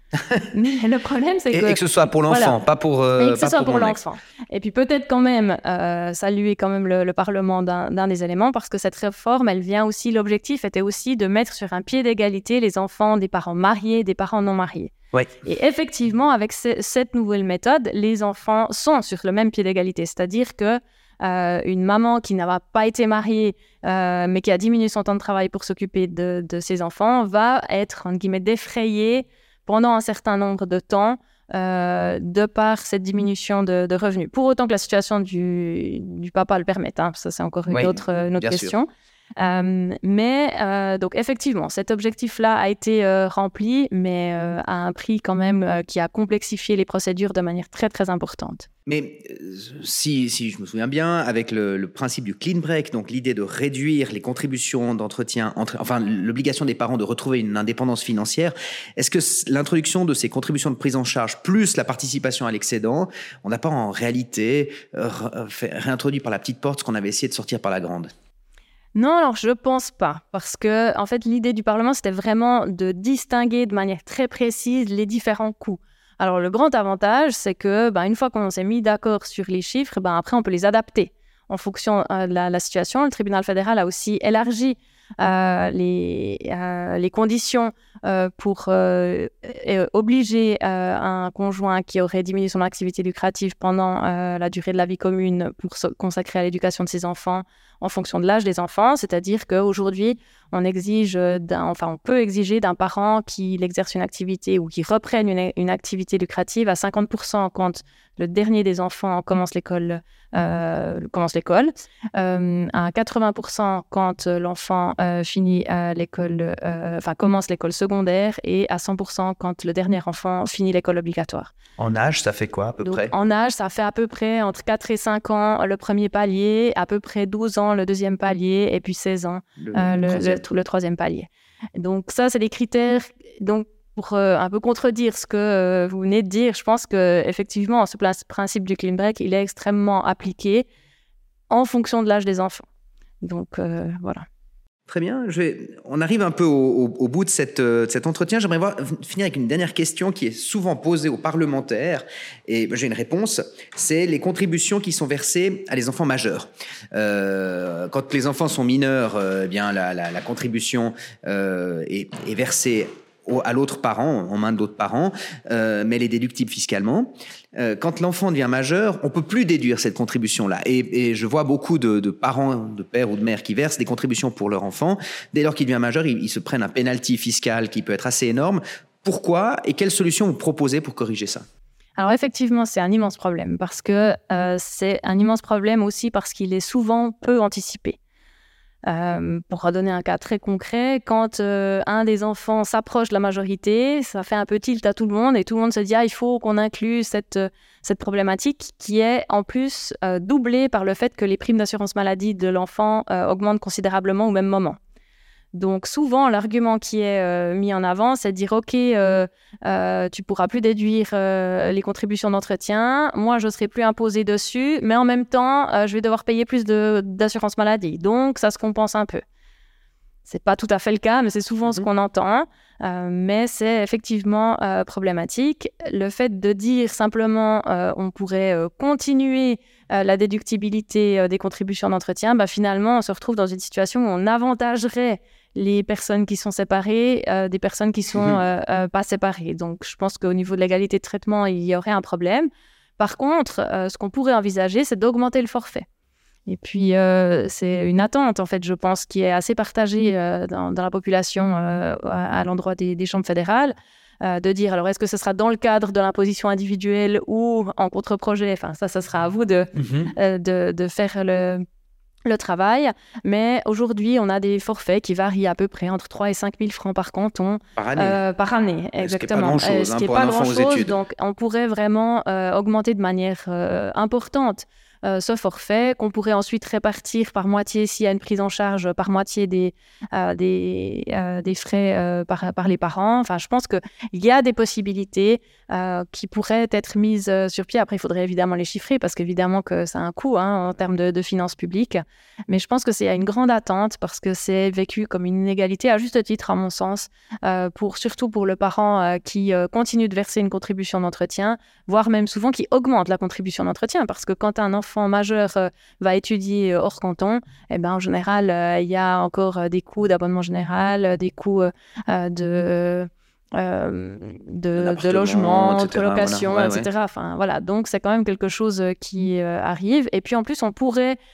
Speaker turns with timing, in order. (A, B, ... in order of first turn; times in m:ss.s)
0:00.5-0:02.6 A
0:01.5-0:04.0 B
0:03.2-0:14.9 A
0:15.4-0:48.7 A
0:37.7-0:38.8 B
0:48.9-1:08.1 B
1:09.0-2:01.5 A
2:01.8-2:03.1 B
2:02.8-2:20.7 A
2:09.6-2:10.4 B
2:21.5-2:22.6 A
2:23.2-2:24.2 A
2:24.9-3:01.4 B
3:02.0-3:08.0 A
3:08.9-3:24.8 A
3:25.5-3:39.2 A
3:40.3-4:05.9 A
4:06.5-4:21.6 A
4:19.8-4:20.1 B
4:22.3-5:21.2 A
4:27.8-4:28.2 B
4:29.0-4:31.0 B
5:14.8-5:16.9 B